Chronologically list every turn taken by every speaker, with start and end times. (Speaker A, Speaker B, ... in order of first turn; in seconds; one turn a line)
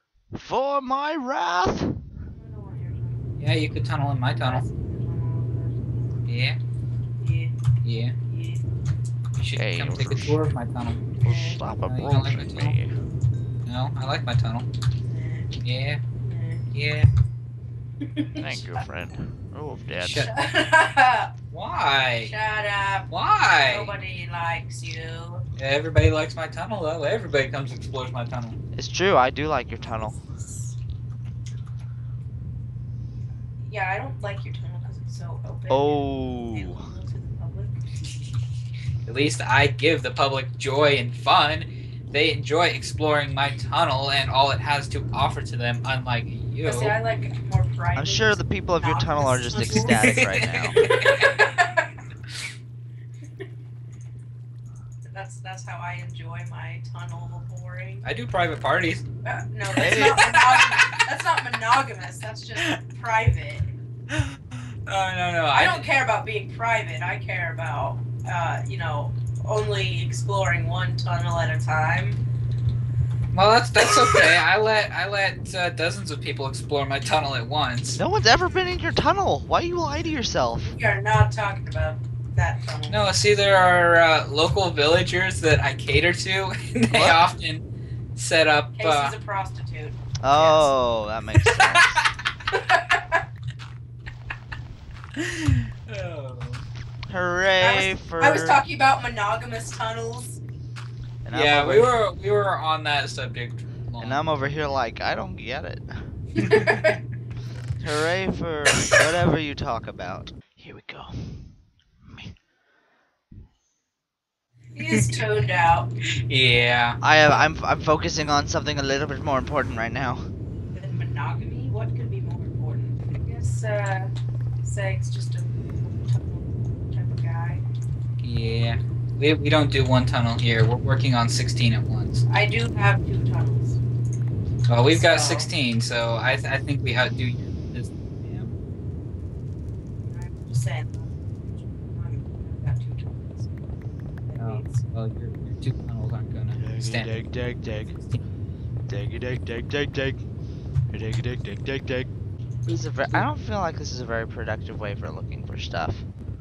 Speaker A: 0.3-2.0
Speaker B: 2.3-3.3
Speaker C: 3.4-4.6
Speaker B: 4.4-6.1
Speaker C: 6.2-6.6
Speaker B: 7.2-7.5
Speaker C: 7.8-8.1
Speaker B: 8.3-8.6
Speaker C: 9.3-11.0
Speaker A: 9.6-10.4
Speaker B: 11.2-11.6
Speaker A: 11.2-12.9
Speaker C: 11.8-12.8
Speaker C: 13.7-14.7
Speaker B: 15.0-15.5
Speaker C: 15.6-16.0
Speaker B: 16.2-16.6
Speaker C: 16.7-17.1
Speaker B: 18.1-18.8
Speaker A: 18.4-20.3
Speaker C: 20.0-20.3
Speaker B: 20.1-21.3
Speaker C: 21.5-22.3
Speaker B: 22.3-23.1
Speaker C: 23.1-23.9
Speaker B: 23.6-25.4
Speaker C: 25.6-28.6
Speaker A: 28.8-30.1
Speaker B: 29.8-30.8
Speaker B: 33.6-37.8
Speaker A: 35.7-36.8
Speaker C: 38.0-38.4
Speaker C: 39.0-47.0
Speaker B: 46.6-50.1
Speaker A: 47.9-50.8
Speaker C: 49.7-51.4
Speaker B: 50.7-51.9
Speaker B: 55.0-58.1
Speaker C: 58.0-59.0
Speaker B: 59.2-63.7
Speaker A: 59.8-60.2
Speaker C: 59.8-60.9
Speaker C: 64.1-65.9
Speaker B: 65.5-72.2
Speaker C: 73.3-78.0
Speaker A: 78.0-80.7
Speaker B: 80.6-83.3
Speaker C: 82.9-87.6
Speaker A: 86.9-87.3
Speaker C: 88.2-89.1
Speaker B: 88.8-90.7
Speaker A: 90.2-92.0
Speaker C: 91.4-91.8
Speaker B: 92.5-93.2
Speaker C: 95.2-96.6
Speaker A: 97.1-98.6
Speaker B: 97.6-100.4
Speaker A: 101.2-101.9
Speaker C: 101.3-104.2
Speaker A: 104.0-106.2
Speaker B: 106.3-107.0
Speaker C: 106.4-107.0
Speaker A: 107.8-111.5
Speaker B: 114.8-115.9
Speaker C: 116.2-117.0
Speaker A: 117.0-120.2
Speaker B: 117.2-117.5
Speaker B: 120.7-124.1
Speaker B: 124.6-127.6
Speaker C: 128.2-132.2
Speaker B: 132.3-133.8
Speaker C: 134.7-138.5
Speaker B: 134.9-135.5
Speaker B: 140.0-143.7
Speaker B: 144.2-144.8
Speaker C: 144.4-147.2
Speaker D: 146.6-147.9
Speaker C: 147.9-148.2
Speaker D: 148.9-150.2
Speaker D: 150.9-152.1
Speaker A: 152.7-156.1